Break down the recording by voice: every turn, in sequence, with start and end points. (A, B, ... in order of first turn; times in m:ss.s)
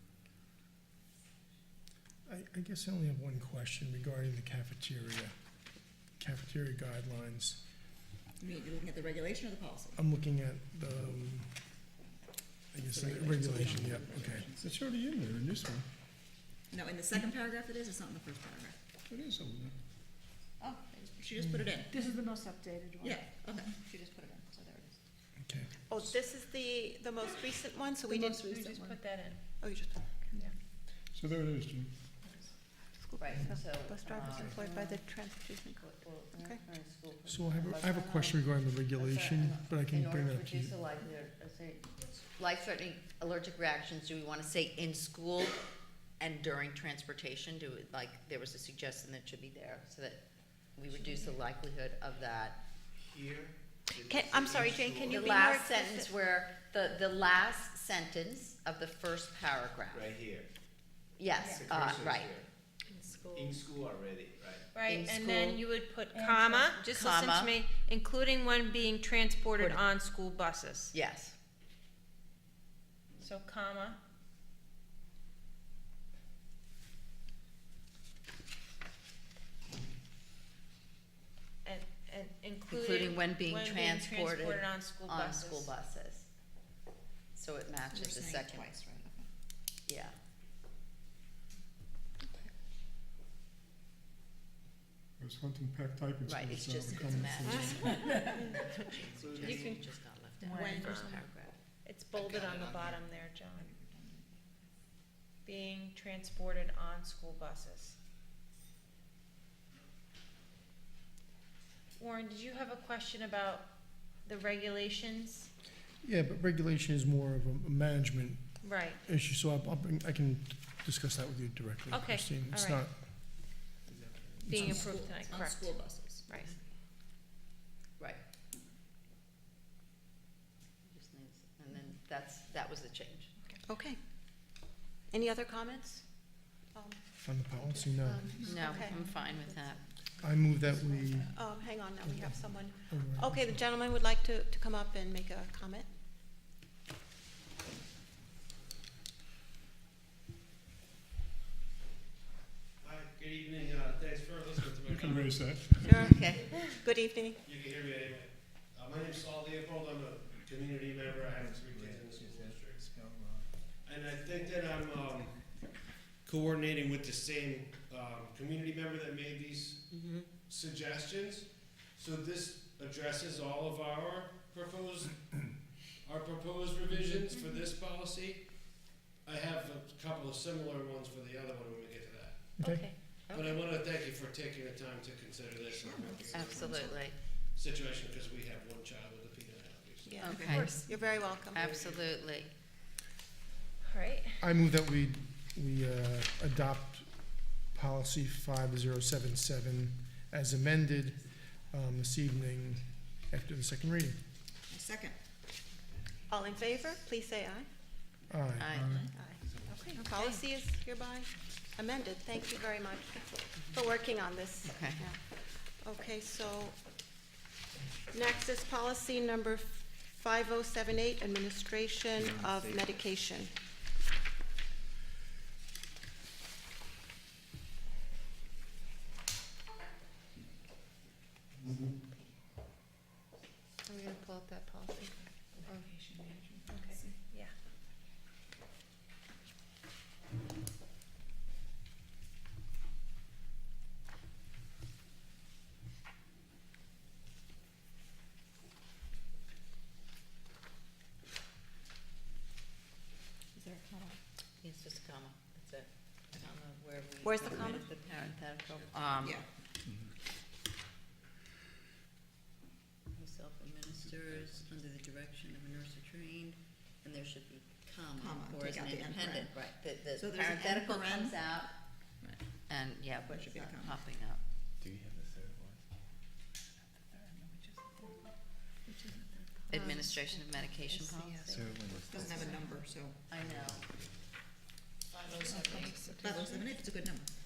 0:02.2-0:05.3 A
0:06.2-0:07.6 A
0:08.4-0:10.0 B
0:09.9-0:11.5 A
0:12.7-0:15.8 A
0:12.8-0:14.7 B
0:16.7-0:18.8 B
0:19.1-0:19.7 A
0:20.6-0:22.0 B
0:21.4-0:21.7 A
0:21.9-0:23.2 C
0:23.0-0:25.0 B
0:25.4-0:26.0 A
0:25.9-0:28.8 D
0:28.4-0:29.4 E
0:29.6-0:30.0 D
0:31.1-0:31.9 A
0:33.0-0:35.8 D
0:33.2-0:35.0 F
0:35.8-0:45.6 F
0:37.2-0:40.8 A
0:46.2-0:50.2 F
0:50.7-0:52.6 F
0:52.9-0:55.2 G
0:53.9-0:56.1 D
0:55.1-1:00.2 F
0:59.9-1:00.5 G
1:01.2-1:02.4 F
1:01.4-1:02.4 G
1:03.3-1:04.6 G
1:04.7-1:10.9 E
1:04.8-1:05.6 F
1:06.2-1:06.7 C
1:06.8-1:07.5 F
1:09.6-1:09.9 F
1:10.9-1:11.3 F
1:13.2-1:14.0 E
1:21.6-1:25.7 E
1:22.7-1:26.3 F
1:27.3-1:28.7 F
1:27.9-1:29.3 B
1:29.9-1:30.2 F
1:35.2-1:37.7 A
1:36.2-1:41.5 F
1:36.9-1:37.6 B
1:39.2-1:39.6 G
1:39.4-1:39.9 E
1:40.4-1:41.2 E
1:40.5-1:41.2 B
1:41.8-1:43.7 E
1:42.2-1:43.0 G
1:43.6-1:44.6 B
1:45.4-1:48.0 E
1:52.0-1:55.5 E
1:56.0-2:03.0 A
1:58.6-1:59.0 E
2:01.9-2:02.9 E
2:04.4-2:06.3 B
2:04.4-2:06.5 E
2:10.8-2:13.3 F
2:13.6-2:14.0 D
2:15.1-2:16.0 D
2:16.7-2:17.0 D
2:17.2-2:18.4 A
2:18.0-2:19.0 D
2:18.5-2:19.8 F
2:20.2-2:21.4 A
2:21.3-2:25.9 D
2:22.0-2:23.6 A
2:32.8-2:35.5 H
2:34.9-2:36.0 A
2:35.8-2:37.4 D
2:36.0-2:36.6 F
2:37.4-2:42.9 H
2:43.0-2:43.3 B
2:43.8-2:45.7 H
2:46.2-2:55.5 H
2:56.0-3:02.6 H
3:02.6-3:02.9 A
3:02.6-3:03.0 E
3:03.2-3:10.3 H
3:05.8-3:06.6 B
3:06.3-3:07.2 F
3:10.0-3:11.6 D
3:10.2-3:10.8 F
3:10.3-3:10.9 E
3:11.5-3:12.0 H
3:11.5-3:12.5 F
3:13.8-3:14.4 E
3:14.4-3:24.2 A
3:24.7-3:25.2 B
3:26.3-3:27.7 D
3:28.3-3:29.1 A
3:28.6-3:29.0 F
3:29.2-3:36.8 D
3:30.0-3:30.4 E
3:34.6-3:35.0 F
3:38.1-3:43.5 D
3:54.0-3:54.3 E
3:55.6-3:57.1 B
3:56.7-3:57.5 E
4:13.5-4:14.2 B
4:14.6-4:19.4 F
4:17.2-4:17.8 D
4:23.1-4:31.8 F
4:28.2-4:31.5 B
4:32.7-4:34.4 F
4:33.3-4:34.0 B
4:34.8-4:35.7 B
4:38.0-4:38.3 B
4:38.9-4:39.2 B
4:39.7-4:41.8 F
4:39.8-4:42.0 E
4:41.7-4:43.2 B
4:42.1-4:42.5 C
4:43.3-4:43.8 F
4:45.3-4:46.6 E
4:45.4-4:47.3 B
4:45.6-4:46.4 C